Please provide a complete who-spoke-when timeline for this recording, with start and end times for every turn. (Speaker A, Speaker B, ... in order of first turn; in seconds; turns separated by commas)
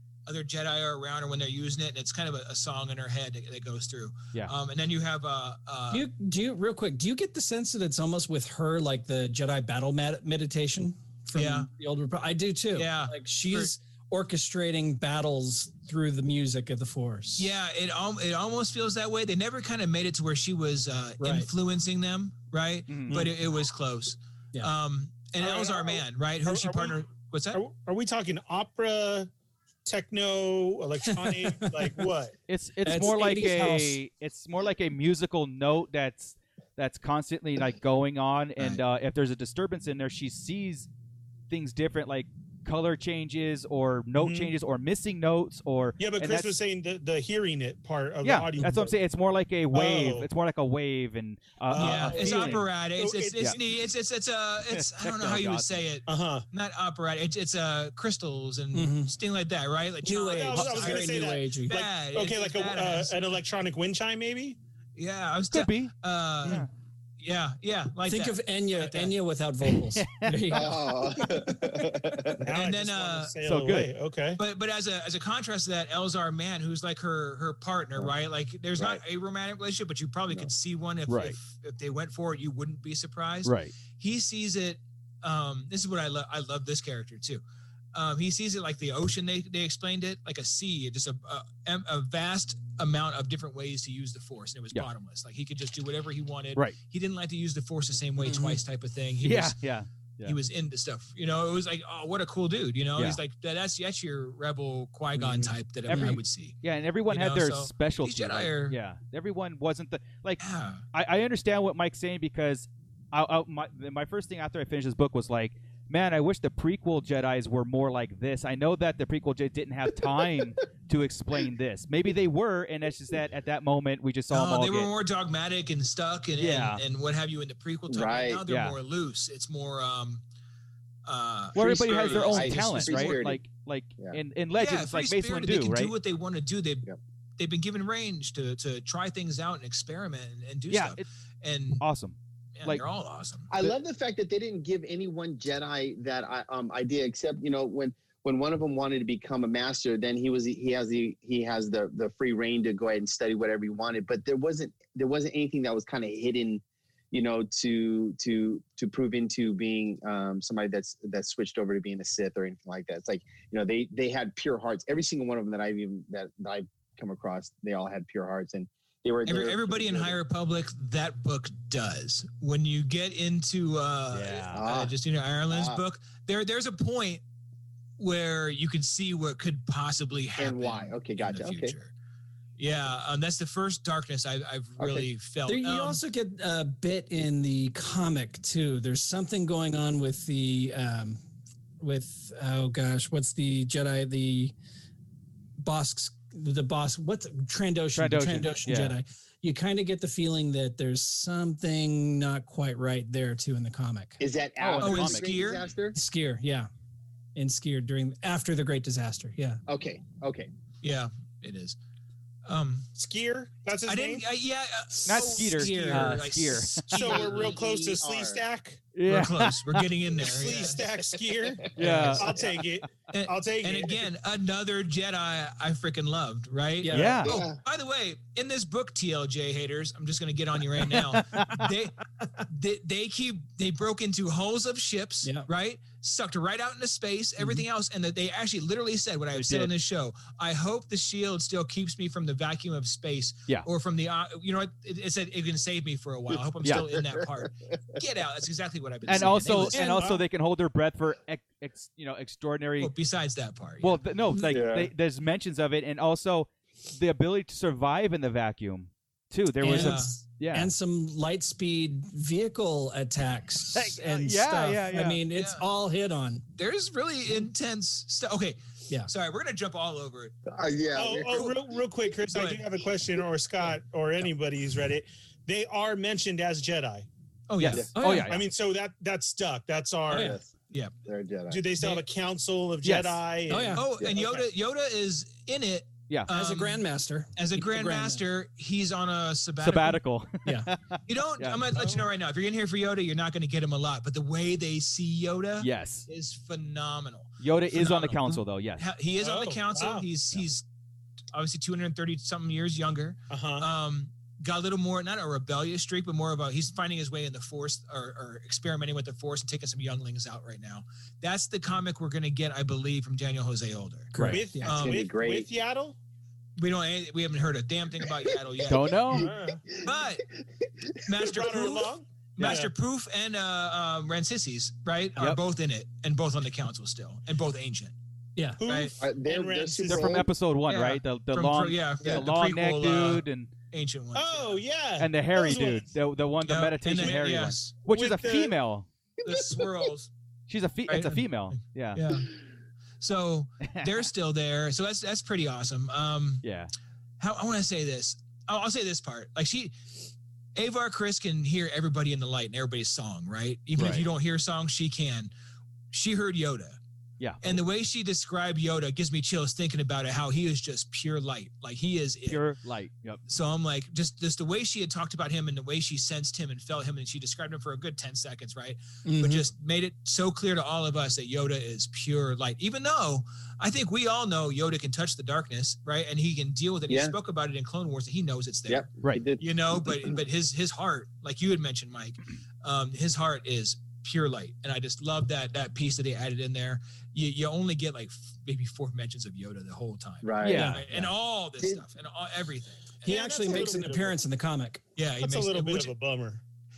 Speaker A: 0.2-6.1, Speaker B: 5.9-17.5, Speaker A: 11.3-11.7, Speaker A: 12.8-13.7, Speaker A: 17.4-27.6, Speaker B: 21.2-21.5, Speaker C: 22.9-23.2, Speaker D: 25.4-29.3, Speaker D: 29.8-32.4, Speaker B: 31.1-32.0, Speaker C: 32.5-40.9, Speaker B: 32.8-34.0, Speaker C: 41.5-46.5, Speaker D: 44.1-44.5, Speaker D: 46.0-48.9, Speaker C: 48.2-52.6, Speaker D: 49.7-50.3, Speaker D: 51.7-53.5, Speaker A: 51.7-63.2, Speaker C: 54.7-55.6, Speaker D: 56.1-56.5, Speaker B: 58.7-59.1, Speaker B: 60.0-61.8, Speaker D: 60.3-64.6, Speaker A: 65.0-66.6, Speaker C: 65.5-66.7, Speaker A: 67.2-69.1, Speaker B: 68.1-71.9, Speaker C: 69.9-70.5, Speaker E: 70.5-72.4, Speaker D: 72.4-74.4, Speaker A: 72.5-73.3, Speaker C: 73.4-73.9, Speaker A: 74.4-87.4, Speaker E: 78.8-79.0, Speaker C: 81.1-81.3, Speaker C: 83.4-83.7, Speaker A: 87.9-99.5, Speaker B: 98.2-98.6, Speaker C: 99.2-100.4, Speaker A: 100.2-106.6, Speaker C: 105.9-110.4, Speaker B: 105.9-106.2, Speaker A: 107.1-108.8, Speaker A: 110.4-110.8, Speaker C: 110.9-124.9, Speaker A: 124.3-130.2, Speaker C: 126.4-126.8, Speaker E: 127.9-128.4, Speaker C: 128.5-128.8, Speaker A: 131.1-133.2, Speaker E: 131.5-133.4, Speaker C: 131.6-135.9, Speaker A: 134.6-136.9, Speaker A: 137.4-141.8, Speaker C: 140.7-141.1, Speaker C: 141.8-142.8, Speaker A: 142.6-143.5, Speaker E: 143.5-170.2, Speaker A: 169.2-177.2, Speaker C: 174.1-174.6, Speaker E: 174.5-174.9, Speaker E: 175.5-175.8, Speaker A: 178.0-181.9, Speaker E: 180.4-181.7, Speaker A: 182.6-186.0, Speaker E: 184.8-185.1, Speaker B: 185.4-191.2, Speaker B: 191.8-194.5, Speaker B: 195.6-204.2, Speaker C: 197.9-198.9, Speaker E: 204.2-205.9, Speaker C: 204.6-205.3, Speaker A: 204.8-205.7, Speaker B: 205.9-206.7, Speaker B: 207.3-209.6, Speaker E: 209.7-210.5, Speaker A: 210.8-211.8, Speaker A: 212.4-212.8, Speaker D: 212.9-214.2, Speaker A: 213.9-217.5, Speaker C: 215.0-216.8, Speaker B: 215.6-216.3, Speaker D: 216.9-218.8, Speaker E: 216.9-218.4, Speaker C: 218.9-219.8, Speaker A: 219.1-220.8, Speaker D: 220.2-224.0, Speaker E: 220.2-221.7, Speaker C: 221.8-222.3, Speaker A: 221.8-222.1, Speaker A: 223.1-249.8, Speaker B: 226.8-227.2, Speaker C: 226.9-227.3, Speaker E: 227.2-227.6, Speaker C: 230.9-231.6, Speaker C: 239.3-239.7, Speaker E: 246.7-247.2, Speaker C: 249.1-252.9, Speaker D: 249.7-250.2, Speaker A: 252.8-254.0, Speaker C: 253.8-260.7, Speaker B: 254.3-254.6, Speaker E: 254.5-254.9, Speaker B: 259.6-266.4, Speaker A: 259.7-260.1, Speaker C: 263.7-265.2, Speaker A: 265.3-265.6, Speaker A: 266.6-270.4, Speaker E: 270.5-271.6, Speaker D: 270.9-277.1, Speaker A: 272.3-272.6, Speaker A: 277.5-277.9, Speaker C: 277.6-278.4, Speaker B: 277.9-278.4, Speaker D: 278.2-280.3, Speaker B: 280.1-280.4, Speaker E: 280.1-280.5, Speaker E: 281.0-281.7, Speaker D: 281.5-283.8, Speaker C: 282.8-283.2, Speaker B: 283.5-283.8, Speaker A: 283.7-286.8, Speaker E: 284.0-284.4, Speaker B: 286.3-288.2, Speaker A: 287.4-290.0, Speaker C: 289.6-291.6, Speaker B: 290.4-290.7, Speaker A: 291.1-300.6, Speaker D: 291.7-292.0, Speaker C: 295.6-296.1, Speaker C: 297.4-298.8, Speaker D: 299.2-300.1, Speaker A: 301.3-315.0, Speaker D: 303.3-303.7, Speaker C: 314.1-314.4, Speaker B: 314.1-314.7, Speaker D: 314.2-316.0, Speaker E: 314.7-315.5, Speaker A: 316.6-318.9, Speaker E: 318.1-321.0, Speaker C: 318.7-319.3, Speaker D: 319.1-319.6, Speaker A: 319.8-320.2, Speaker A: 321.1-327.9, Speaker D: 321.2-322.7, Speaker D: 328.6-330.2, Speaker A: 328.6-328.9, Speaker E: 329.0-330.2, Speaker C: 329.9-333.5, Speaker A: 330.7-334.6, Speaker D: 334.1-335.9, Speaker C: 335.0-338.9, Speaker A: 336.4-337.8, Speaker D: 337.9-338.6, Speaker A: 339.2-340.1, Speaker C: 340.5-342.0, Speaker A: 340.9-342.3, Speaker A: 343.0-346.4, Speaker C: 343.6-344.0, Speaker C: 346.4-346.7, Speaker A: 347.2-349.7, Speaker A: 350.6-355.3, Speaker C: 353.8-354.1, Speaker A: 355.9-356.8, Speaker C: 357.2-357.5, Speaker A: 357.4-362.4, Speaker C: 362.3-363.2, Speaker A: 363.3-378.9, Speaker B: 369.0-369.5, Speaker E: 376.9-377.1, Speaker E: 378.7-380.2, Speaker A: 379.4-393.1, Speaker E: 390.2-391.1, Speaker C: 390.4-390.8, Speaker B: 390.5-390.8, Speaker B: 393.0-394.8, Speaker D: 393.1-394.1, Speaker A: 395.0-395.9, Speaker D: 395.2-396.4